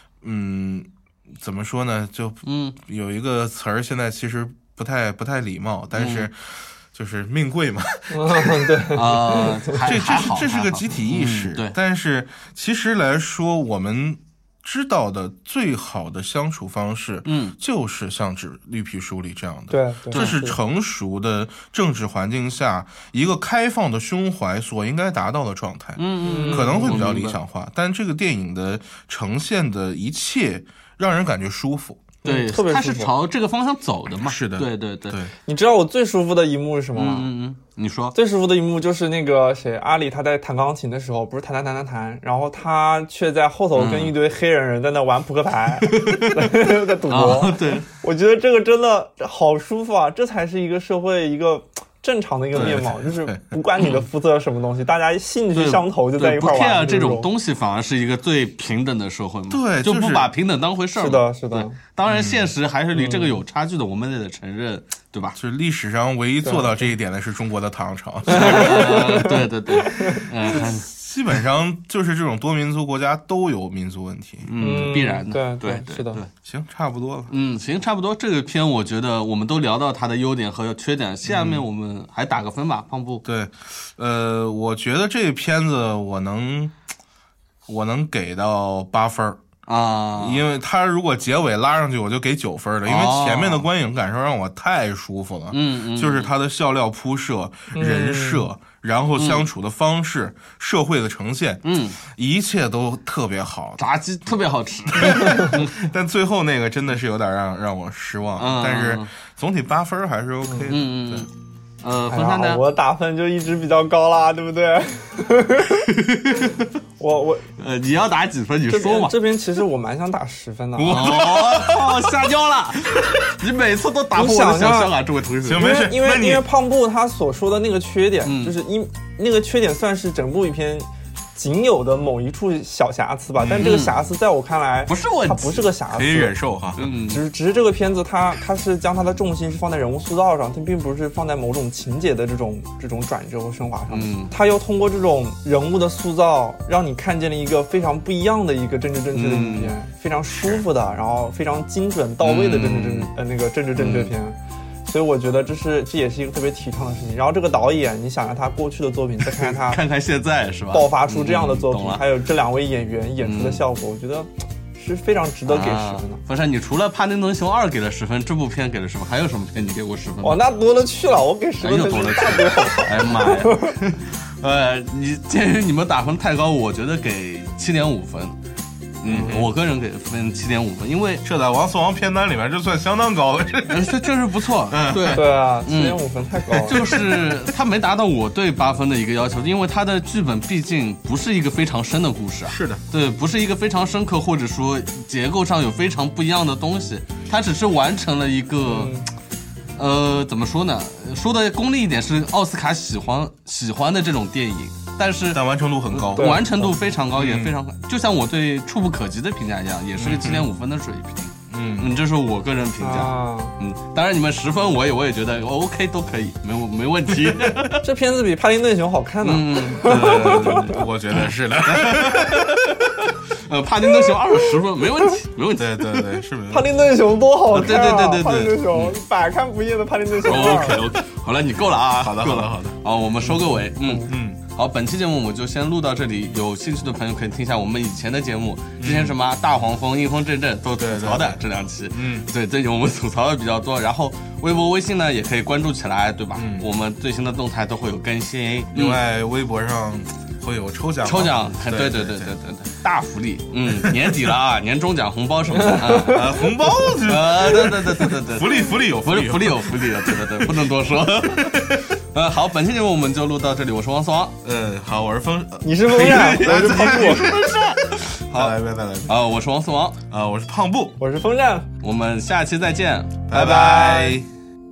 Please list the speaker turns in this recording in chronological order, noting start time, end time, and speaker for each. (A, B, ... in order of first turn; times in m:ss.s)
0:00.2-0:08.9 A
0:02.4-0:02.8 B
0:05.9-0:06.3 B
0:08.1-0:09.8 C
0:08.9-0:11.7 B
0:09.8-0:32.1 A
0:17.3-0:17.6 B
0:19.7-0:20.6 C
0:20.1-0:20.4 B
0:26.0-0:27.4 B
0:26.2-0:27.1 C
0:32.2-0:33.1 C
0:32.2-0:35.2 B
0:34.2-0:35.3 A
0:35.5-0:37.3 C
0:37.0-0:38.2 B
0:38.1-0:57.3 C
0:43.8-0:44.2 B
0:45.8-0:47.9 B
0:52.6-0:53.4 A
0:55.6-1:05.4 B
0:59.5-1:00.3 A
1:01.0-1:01.8 C
1:02.0-1:02.5 A
1:02.9-1:03.4 C
1:05.4-1:09.1 A
1:06.4-1:06.8 C
1:08.3-1:10.3 C
1:08.3-1:10.9 B
1:10.4-1:14.5 A
1:14.5-1:16.3 B
1:14.6-1:16.2 C
1:16.4-1:17.3 A
1:17.3-1:23.2 B
1:21.2-1:21.7 A
1:23.2-1:26.7 A
1:27.7-1:29.4 A
1:29.7-1:30.4 B
1:30.2-1:43.8 A
1:32.8-1:33.7 B
1:35.5-1:36.3 B
1:37.7-1:38.5 C
1:39.2-1:39.5 B
1:41.6-1:42.0 B
1:43.8-1:45.8 B
1:44.9-1:51.3 A
1:45.1-1:45.5 C
1:48.4-1:49.1 B
1:50.4-1:50.7 C
1:50.7-1:51.3 B
1:51.8-1:52.6 B
1:52.1-1:55.9 C
1:55.7-1:56.7 B
1:57.0-1:57.5 C
1:57.6-1:59.2 B
1:58.7-2:01.2 C
2:00.8-2:02.2 A
2:00.9-2:05.7 B
2:04.2-2:05.0 C
2:05.4-2:06.4 A
2:05.6-2:39.8 C
2:08.2-2:08.6 B
2:13.4-2:13.8 A
2:13.6-2:14.0 B
2:14.9-2:15.7 B
2:15.9-2:16.8 A
2:16.8-2:17.2 B
2:23.9-2:24.3 B
2:29.1-2:29.7 B
2:32.2-2:33.1 B
2:33.8-2:34.1 B
2:39.2-2:42.0 B
2:40.7-2:46.2 C
2:43.2-2:43.6 B
2:45.5-2:50.4 B
2:50.2-2:53.8 C
2:51.6-2:58.4 B
2:59.0-3:01.2 B
2:59.1-2:59.5 A
3:01.2-3:04.0 A
3:03.7-3:06.0 B
3:04.7-3:05.2 A
3:05.1-3:06.8 C
3:06.5-3:19.0 B
3:06.6-3:07.5 A
3:12.5-3:12.8 A
3:18.6-3:19.1 C
3:19.8-3:37.8 B
3:25.3-3:26.5 A
3:26.2-3:26.7 C
3:27.1-3:27.6 A
3:30.0-3:30.5 A
3:31.5-3:31.9 A
3:32.8-3:33.5 C
3:37.8-3:40.8 C
3:39.2-3:46.2 B
3:39.9-3:42.9 A
3:45.6-3:46.7 A
3:46.5-3:50.9 C
3:47.5-3:48.9 B
3:50.2-4:09.0 B
3:52.0-3:52.8 A
3:53.2-3:54.1 C
3:54.0-3:54.4 A
3:58.8-3:59.2 A
4:00.8-4:02.3 A
4:06.4-4:06.7 A
4:08.7-4:12.4 A
4:11.0-4:24.4 B
4:13.7-4:14.3 A
4:15.6-4:16.2 C
4:15.9-4:22.0 A
4:24.4-4:29.2 A
4:25.6-4:27.3 C
4:25.9-4:28.6 B
4:29.1-4:30.0 B
4:30.1-4:31.0 A
4:31.0-4:31.7 C
4:31.8-4:33.2 B
4:33.3-4:34.3 A
4:33.3-4:34.2 C